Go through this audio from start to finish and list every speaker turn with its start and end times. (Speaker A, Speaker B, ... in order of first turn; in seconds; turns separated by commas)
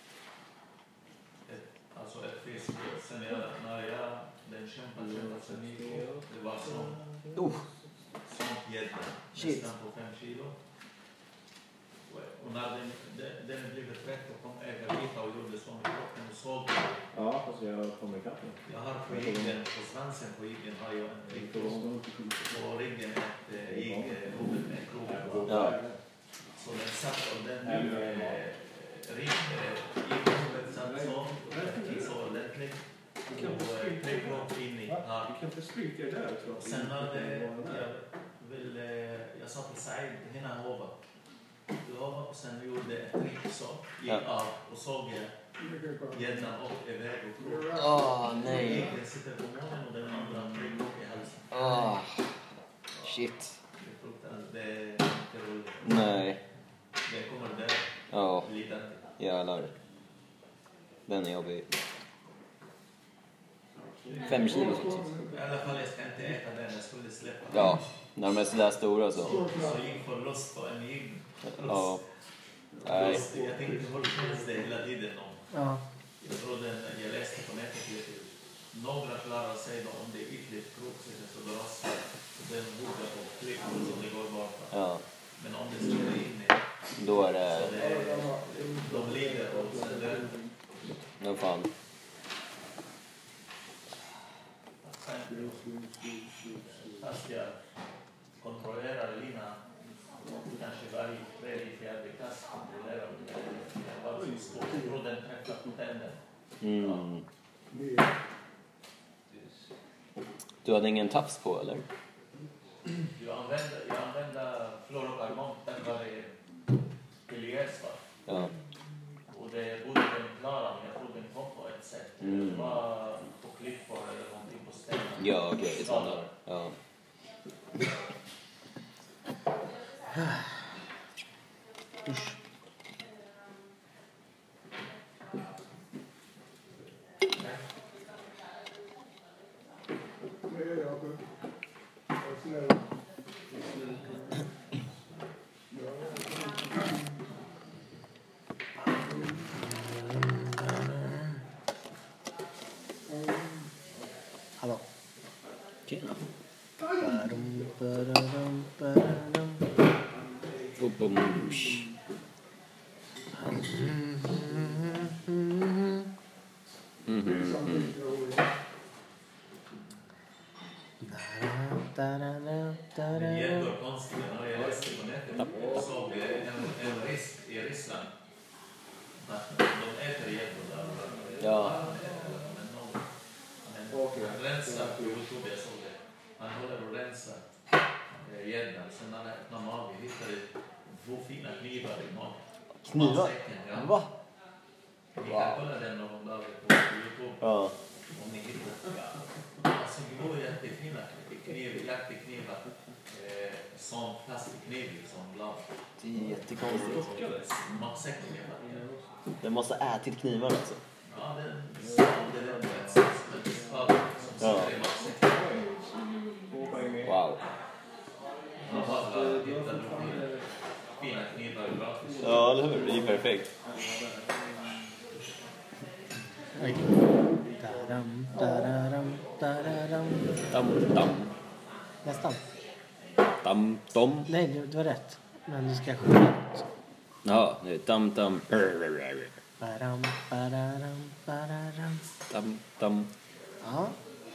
Speaker A: 1.4-7.0, Speaker B: 5.1-6.2, Speaker C: 7.3-7.6, Speaker A: 8.2-10.6, Speaker C: 9.3-9.7, Speaker A: 12.1-17.0, Speaker B: 17.1-19.6, Speaker A: 18.6-25.8, Speaker B: 21.3-21.9, Speaker D: 21.5-22.5, Speaker B: 23.6-24.4, Speaker B: 25.0-26.0, Speaker C: 25.4-25.8, Speaker A: 26.6-35.4, Speaker B: 27.6-28.4, Speaker D: 30.3-32.4, Speaker D: 33.3-37.8, Speaker A: 36.5-41.0, Speaker A: 41.8-45.3, Speaker E: 45.6-46.5, Speaker A: 46.1-47.9, Speaker E: 47.4-48.6, Speaker C: 47.7-48.9, Speaker A: 48.4-51.6, Speaker C: 51.5-52.3, Speaker C: 53.0-53.5, Speaker A: 53.8-56.2, Speaker C: 55.8-56.4, Speaker A: 57.0-59.0, Speaker C: 58.1-58.5, Speaker C: 59.2-59.7, Speaker C: 61.1-61.7, Speaker C: 64.2-65.0, Speaker E: 64.2-65.8, Speaker A: 64.4-67.8, Speaker C: 67.5-69.5, Speaker E: 69.2-70.0, Speaker A: 69.2-72.0, Speaker C: 71.5-72.0, Speaker C: 72.8-73.2, Speaker A: 72.8-75.5, Speaker F: 75.5-75.8, Speaker A: 76.2-84.8, Speaker C: 84.7-85.0, Speaker A: 85.4-86.7, Speaker C: 87.0-87.8, Speaker A: 87.4-90.4, Speaker E: 87.7-90.4, Speaker C: 91.2-91.7, Speaker A: 94.8-95.7, Speaker E: 95.4-96.7, Speaker A: 96.8-97.6, Speaker A: 98.4-99.6, Speaker A: 100.3-107.0, Speaker C: 106.6-107.2, Speaker E: 107.7-108.1, Speaker C: 110.6-111.8, Speaker A: 113.1-116.3, Speaker A: 117.3-118.1, Speaker C: 118.3-118.5, Speaker A: 119.3-126.3, Speaker C: 122.2-122.8, Speaker C: 125.2-126.8, Speaker F: 132.0-132.3, Speaker A: 137.3-137.6, Speaker E: 140.4-141.2, Speaker E: 142.2-142.9, Speaker E: 145.7-147.2, Speaker F: 149.2-151.4, Speaker E: 153.1-153.7, Speaker F: 154.6-154.8, Speaker C: 155.9-156.2, Speaker F: 156.9-159.6, Speaker C: 160.8-161.8, Speaker F: 163.4-166.1, Speaker C: 167.1-167.9, Speaker E: 167.2-168.6, Speaker F: 171.0-173.7, Speaker A: 173.1-178.1, Speaker A: 179.2-183.0, Speaker C: 181.4-181.9, Speaker A: 183.6-187.4, Speaker A: 188.2-194.0, Speaker C: 192.8-194.1, Speaker A: 195.2-197.5, Speaker C: 195.2-195.6, Speaker C: 197.4-197.7, Speaker A: 198.1-199.0, Speaker A: 199.6-205.7, Speaker C: 206.0-207.2, Speaker D: 206.7-207.4, Speaker A: 206.8-208.9, Speaker D: 208.6-209.2, Speaker C: 209.4-210.8, Speaker A: 211.1-215.6, Speaker D: 214.4-217.1, Speaker C: 214.4-214.7, Speaker C: 217.0-217.4, Speaker A: 218.6-220.4, Speaker D: 218.6-220.4, Speaker A: 220.9-222.7, Speaker D: 222.2-224.8, Speaker C: 222.2-223.5, Speaker F: 226.6-230.4, Speaker C: 230.5-231.3, Speaker F: 232.0-232.4, Speaker C: 233.4-234.3, Speaker F: 234.3-236.7, Speaker C: 237.2-239.3, Speaker F: 239.6-242.1, Speaker C: 242.3-243.1, Speaker F: 243.6-244.0